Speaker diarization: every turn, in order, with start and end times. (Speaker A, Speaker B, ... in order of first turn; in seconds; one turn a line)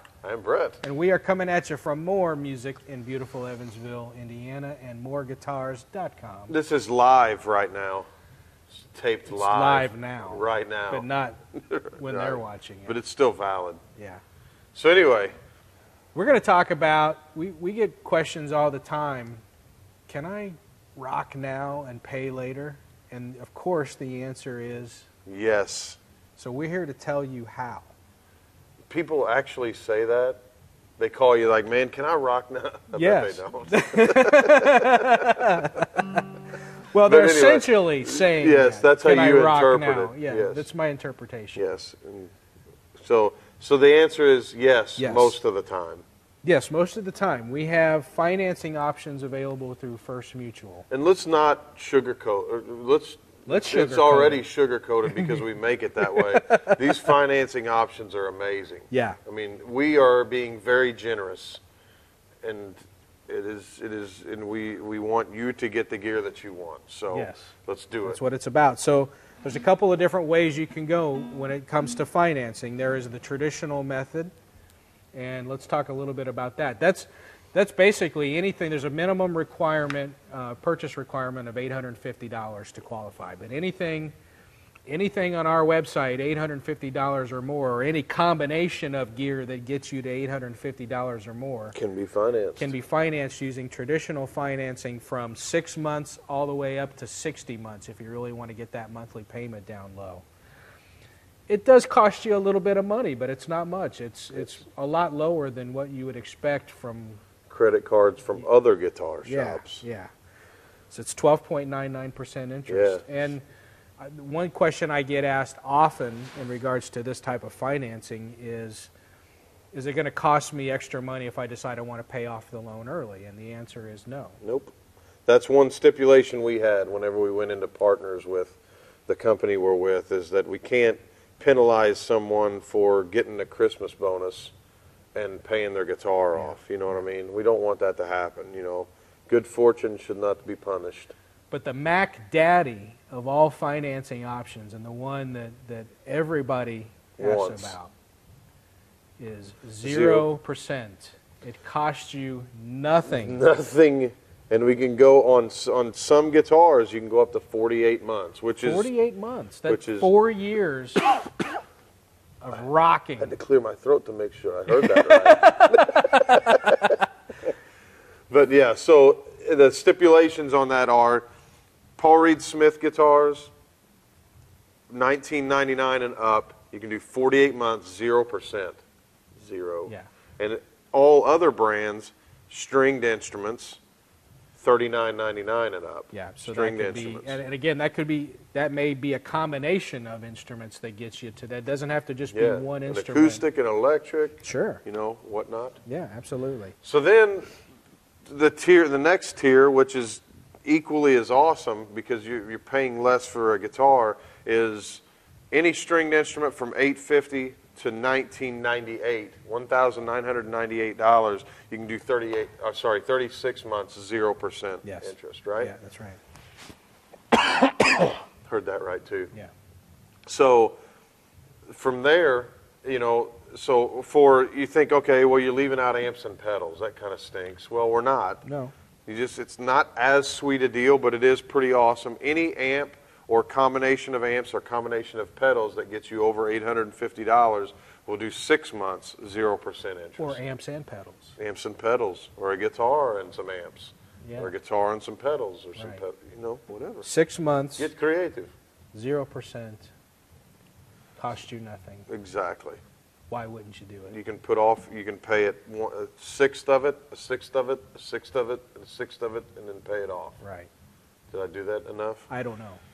Speaker A: 0.2-0.8
Speaker B: 0.8-6.5
Speaker A: 6.5-8.1
Speaker A: 8.7-13.8
Speaker B: 9.3-11.4
Speaker B: 11.9-13.0
Speaker B: 14.0-14.2
Speaker A: 14.7-15.3
Speaker B: 16.1-19.4
Speaker B: 20.1-25.1
Speaker A: 25.2-26.0
Speaker B: 26.4-27.9
Speaker A: 28.9-30.4
Speaker A: 31.0-35.7
Speaker B: 32.9-36.2
Speaker B: 36.9-41.6
Speaker A: 37.0-40.7
Speaker A: 41.5-42.3
Speaker A: 43.0-46.0
Speaker B: 45.0-45.4
Speaker B: 46.4-50.9
Speaker A: 50.9-61.6
Speaker B: 53.5-54.4
Speaker B: 55.1-55.4
Speaker B: 56.1-56.8
Speaker B: 58.9-59.2
Speaker A: 62.4-68.2
Speaker B: 67.1-67.5
Speaker B: 68.0-74.3
Speaker B: 75.1-84.1
Speaker B: 84.9-91.8
Speaker A: 91.7-92.7
Speaker B: 92.6-100.2
Speaker B: 101.5-107.2
Speaker A: 107.5-109.8
Speaker B: 109.2-110.1
Speaker B: 110.9-113.4
Speaker A: 112.7-113.3
Speaker B: 114.0-118.9
Speaker B: 119.7-124.4
Speaker A: 124.4-124.7
Speaker A: 125.3-134.5
Speaker A: 135.1-141.1
Speaker B: 136.3-137.0
Speaker B: 141.5-147.9
Speaker A: 147.2-147.8
Speaker B: 149.2-153.4
Speaker A: 149.8-150.3
Speaker A: 153.1-158.9
Speaker B: 158.6-161.1
Speaker A: 159.7-160.1
Speaker B: 162.4-163.3
Speaker A: 163.2-167.0
Speaker B: 164.7-166.9
Speaker A: 168.3-171.2
Speaker A: 172.0-173.5
Speaker A: 174.9-178.8
Speaker A: 179.4-183.8
Speaker A: 184.6-187.4
Speaker B: 186.1-193.4
Speaker A: 192.3-195.8
Speaker B: 194.4-194.8
Speaker B: 195.8-196.8
Speaker A: 196.8-197.5
Speaker A: 198.2-215.7
Speaker B: 214.8-216.2
Speaker A: 218.4-219.3
Speaker A: 220.2-220.8
Speaker A: 221.7-228.4
Speaker B: 228.4-228.7
Speaker A: 229.1-240.4
Speaker B: 240.2-241.3
Speaker A: 241.4-247.1
Speaker B: 244.2-244.5
Speaker B: 245.8-246.0
Speaker B: 247.0-247.9
Speaker A: 247.8-248.5
Speaker B: 248.9-249.9
Speaker B: 251.2-252.1
Speaker A: 252.1-252.8
Speaker B: 253.3-254.1
Speaker A: 254.1-260.4
Speaker B: 260.4-260.7
Speaker A: 261.3-262.3
Speaker B: 262.3-262.8